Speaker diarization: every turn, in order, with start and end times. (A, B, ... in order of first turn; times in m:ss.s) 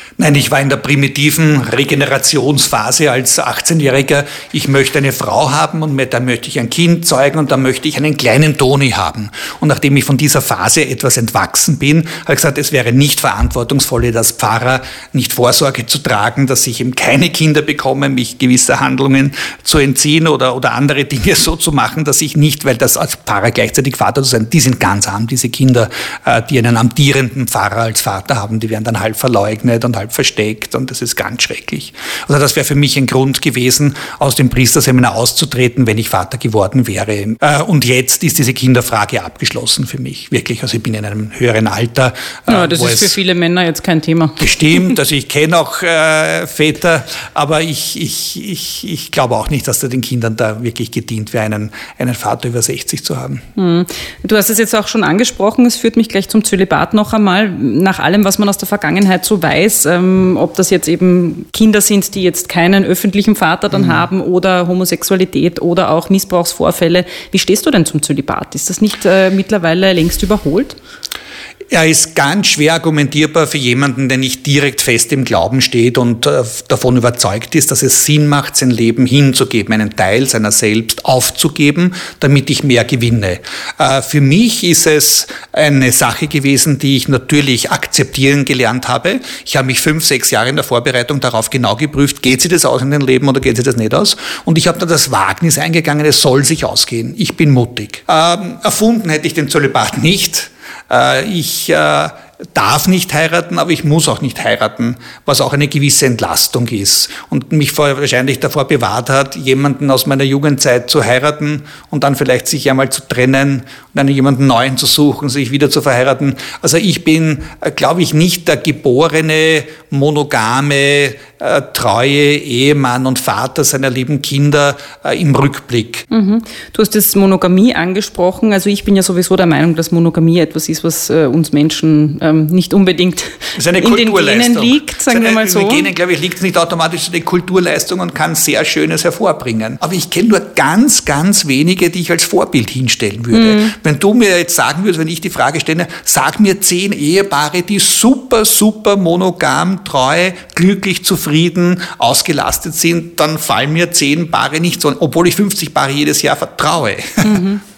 0:00.2-0:43.2 A
0:42.5-0:44.4 B
0:44.4-0:53.4 A
0:53.6-1:10.8 B
1:03.7-1:04.0 A
1:11.7-2:06.1 A
2:06.1-2:15.9 B
2:13.6-2:37.4 A
2:23.3-2:23.7 B
2:37.2-2:37.6 B